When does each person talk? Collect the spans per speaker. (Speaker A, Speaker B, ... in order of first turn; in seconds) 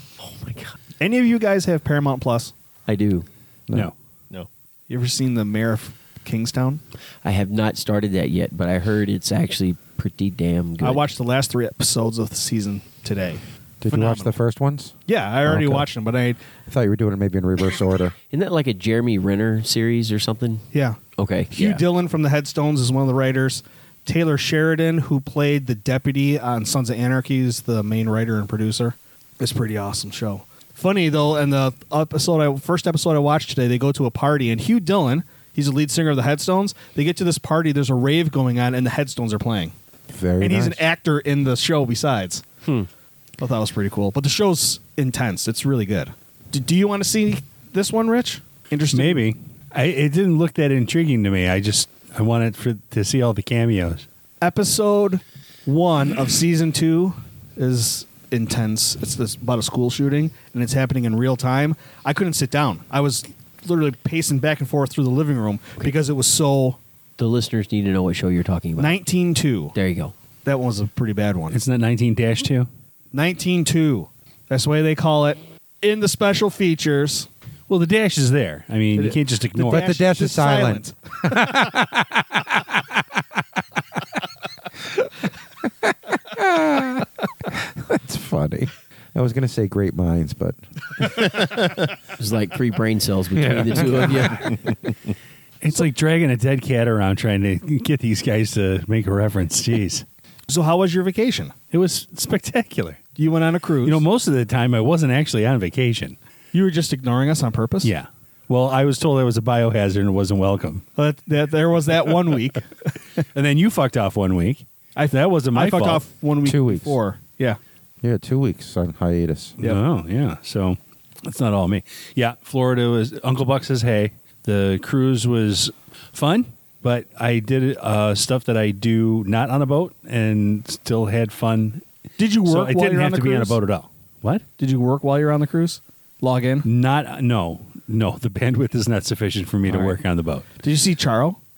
Speaker A: 0.2-0.8, 2.9-3.2, 7.2-11.0, 18.3-21.8, 42.6-42.9, 67.2-69.0, 69.7-70.1, 92.2-94.5
Speaker B: 1.0-2.5, 4.9-6.8, 10.8-14.3, 15.1-16.4, 20.7-21.0, 21.5-39.7, 40.4-42.4, 43.4-49.2, 54.4-66.8, 68.8-69.7, 70.4-71.6, 73.1-77.3, 79.0-80.9, 100.5-101.5, 103.2-104.0, 106.5-107.9, 111.0-112.6, 115.0-117.6, 132.2-133.6, 134.6-136.7, 139.7-140.0, 140.6-141.4
Speaker C: 13.8-14.9, 15.4-15.9, 16.7-18.1, 40.1-40.8, 79.7-83.0, 85.8-90.6, 93.3-94.3, 116.4-117.0, 118.0-119.5
Speaker D: 48.9-54.0, 71.5-72.7, 77.7-79.9, 95.6-100.0, 101.7-103.1, 103.8-106.2, 107.8-110.8, 113.3-116.0, 119.6-131.8, 132.3-134.4, 136.6-140.5